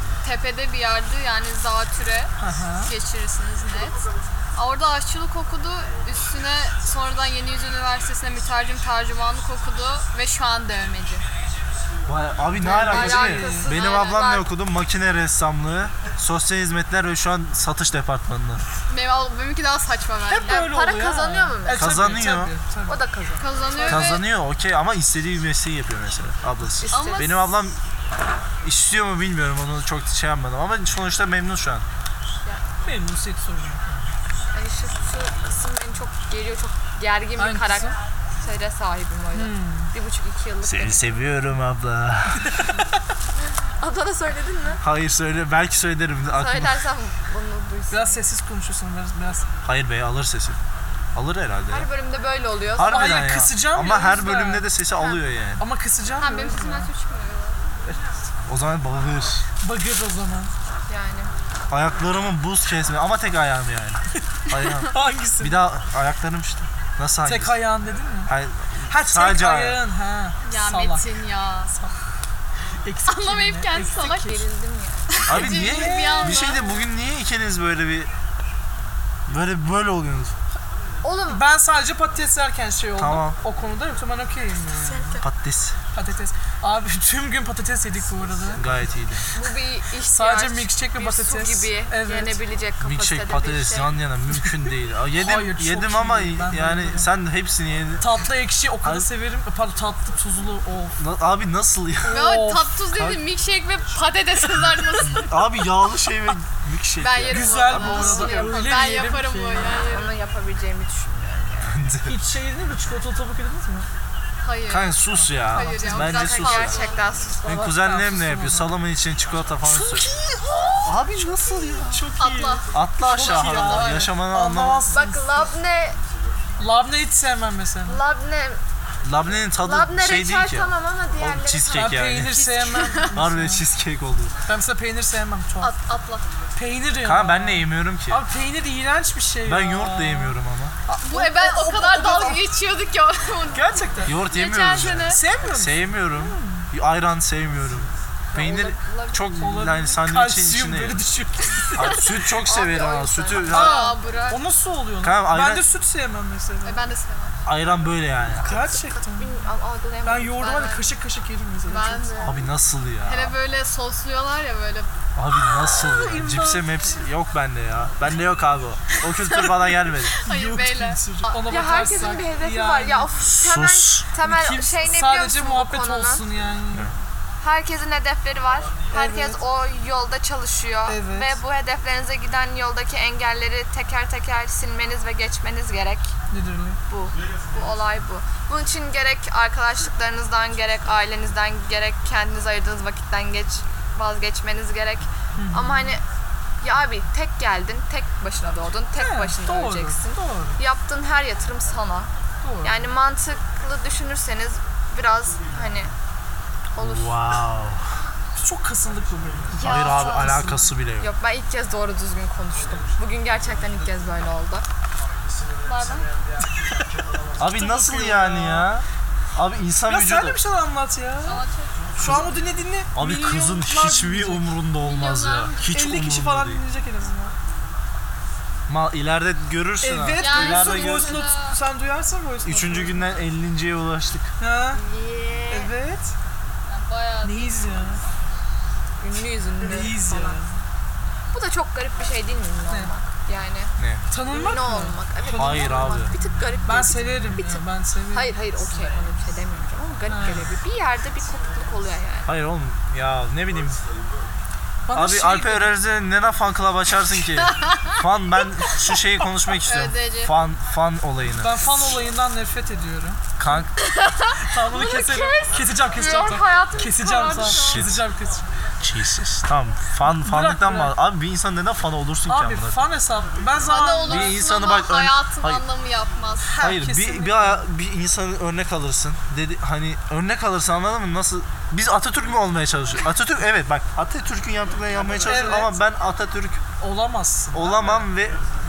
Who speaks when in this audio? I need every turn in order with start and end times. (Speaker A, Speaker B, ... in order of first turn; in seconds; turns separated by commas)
Speaker A: 0.2-2.3, Speaker B: 2.4-2.9, Speaker A: 2.8-4.0, Speaker A: 4.6-11.2, Speaker C: 12.1-18.6, Speaker B: 12.6-13.7, Speaker D: 12.7-14.2, Speaker A: 13.7-14.5, Speaker A: 18.9-20.8, Speaker B: 20.3-23.0, Speaker D: 20.5-21.9, Speaker C: 21.7-22.5, Speaker D: 22.9-23.9, Speaker A: 23.4-24.3, Speaker B: 23.7-24.2, Speaker C: 23.9-27.8, Speaker D: 26.8-27.3, Speaker A: 26.9-27.5, Speaker C: 28.6-31.9, Speaker B: 32.8-34.1, Speaker D: 34.5-41.1, Speaker B: 37.4-38.0, Speaker B: 39.3-39.9, Speaker C: 40.6-42.7, Speaker B: 42.4-42.9, Speaker D: 43.8-44.8, Speaker C: 44.8-46.8, Speaker D: 46.3-48.2, Speaker B: 47.9-49.5, Speaker C: 49.6-50.6, Speaker C: 51.1-51.9, Speaker D: 51.7-53.2, Speaker C: 52.7-55.6, Speaker B: 52.8-54.7, Speaker D: 54.9-55.2, Speaker B: 55.6-56.9, Speaker A: 56.2-57.7, Speaker C: 58.5-59.4, Speaker B: 59.6-60.5, Speaker D: 60.9-61.3, Speaker C: 61.7-67.6, Speaker B: 64.2-65.7, Speaker B: 67.2-68.3, Speaker C: 68.3-69.8, Speaker B: 68.9-71.0, Speaker A: 70.5-71.7, Speaker B: 72.8-74.4, Speaker A: 73.1-74.4, Speaker D: 74.0-75.3, Speaker A: 75.1-76.8, Speaker C: 75.3-78.1, Speaker B: 75.4-76.6, Speaker C: 79.3-80.3, Speaker D: 81.0-81.4, Speaker B: 81.3-85.2, Speaker C: 83.0-83.4, Speaker D: 84.8-85.2, Speaker C: 85.2-85.8, Speaker B: 86.0-88.7, Speaker C: 88.5-89.2, Speaker D: 89.3-94.0, Speaker B: 90.1-92.4, Speaker C: 92.8-98.1, Speaker B: 95.2-97.1, Speaker B: 98.0-101.0, Speaker C: 101.0-102.2, Speaker B: 102.0-102.7, Speaker A: 102.1-105.5, Speaker C: 103.0-103.2, Speaker C: 105.1-107.5, Speaker A: 107.0-110.2, Speaker B: 107.3-109.8, Speaker D: 107.7-108.8, Speaker D: 109.8-111.8, Speaker C: 111.7-112.2, Speaker B: 112.1-113.9, Speaker A: 114.4-117.0, Speaker C: 114.7-116.8, Speaker B: 115.1-116.2, Speaker D: 115.8-117.8, Speaker C: 117.5-120.1, Speaker B: 117.8-118.7, Speaker B: 119.7-120.9, Speaker C: 120.8-122.1, Speaker D: 121.2-122.0, Speaker B: 121.9-125.4, Speaker A: 122.2-124.1, Speaker C: 122.7-124.8, Speaker D: 124.9-126.0, Speaker B: 126.6-128.0, Speaker D: 127.9-128.6, Speaker C: 129.1-132.3, Speaker D: 129.6-132.1, Speaker B: 131.7-133.6, Speaker A: 132.3-133.1, Speaker C: 133.1-134.3, Speaker B: 134.5-135.7, Speaker A: 135.6-136.2, Speaker B: 136.6-140.4, Speaker C: 137.0-138.2, Speaker C: 139.4-140.7, Speaker B: 140.9-142.4, Speaker A: 141.1-145.2, Speaker B: 143.5-144.2, Speaker C: 144.1-151.0, Speaker B: 145.0-146.7, Speaker D: 148.3-149.5, Speaker B: 149.4-152.1, Speaker C: 151.7-153.8, Speaker D: 152.2-153.7, Speaker A: 153.5-154.4, Speaker B: 153.5-156.8, Speaker C: 155.0-155.6, Speaker A: 156.7-157.4, Speaker C: 157.5-158.5, Speaker B: 158.4-159.3, Speaker D: 158.4-160.9, Speaker B: 160.0-162.4, Speaker A: 161.7-162.4, Speaker C: 162.2-163.3, Speaker A: 163.1-164.9, Speaker C: 165.2-170.2, Speaker B: 165.6-166.8, Speaker A: 169.3-169.6, Speaker A: 170.1-171.4, Speaker B: 170.2-173.1, Speaker D: 171.4-176.2, Speaker C: 173.2-174.1, Speaker B: 174.2-176.9, Speaker D: 177.4-186.1, Speaker B: 178.9-179.4, Speaker B: 180.9-181.4, Speaker B: 186.3-186.8, Speaker D: 186.9-196.0, Speaker B: 195.4-195.9, Speaker D: 196.6-202.1, Speaker B: 199.0-200.6, Speaker B: 202.4-202.8, Speaker D: 202.6-205.9, Speaker D: 206.8-207.2, Speaker C: 206.8-207.8, Speaker B: 208.4-210.7, Speaker D: 209.6-214.7, Speaker C: 209.6-211.1, Speaker A: 215.7-216.1, Speaker C: 217.4-220.4, Speaker B: 217.4-218.7, Speaker B: 219.9-221.4, Speaker A: 221.2-221.9, Speaker B: 222.0-224.5, Speaker C: 222.0-222.3, Speaker C: 222.9-226.6, Speaker A: 224.8-225.6, Speaker B: 225.7-227.3, Speaker C: 228.7-231.2, Speaker B: 229.8-233.0, Speaker A: 230.2-231.6, Speaker C: 232.4-234.3, Speaker B: 234.4-234.8, Speaker D: 234.7-235.7, Speaker B: 235.5-236.1, Speaker A: 236.7-237.6, Speaker B: 237.2-238.0, Speaker D: 239.0-240.4, Speaker B: 239.6-240.5, Speaker D: 241.3-243.7, Speaker C: 243.8-244.0, Speaker B: 244.1-245.9, Speaker D: 244.3-252.3, Speaker C: 245.3-246.1, Speaker B: 246.7-248.4, Speaker B: 250.1-250.5, Speaker C: 252.3-253.8, Speaker B: 254.9-255.7, Speaker C: 254.9-261.6, Speaker A: 257.5-257.9, Speaker A: 259.6-260.3, Speaker B: 261.4-263.2, Speaker C: 263.4-263.7, Speaker B: 264.4-268.5, Speaker A: 264.7-265.4, Speaker A: 265.9-267.9, Speaker C: 267.4-268.0, Speaker C: 268.8-272.8, Speaker B: 270.2-270.9, Speaker B: 272.3-274.3, Speaker A: 273.6-276.7, Speaker C: 274.1-275.6, Speaker B: 276.4-277.6, Speaker C: 276.6-286.6, Speaker B: 285.2-285.8, Speaker B: 286.8-288.1, Speaker C: 287.5-288.4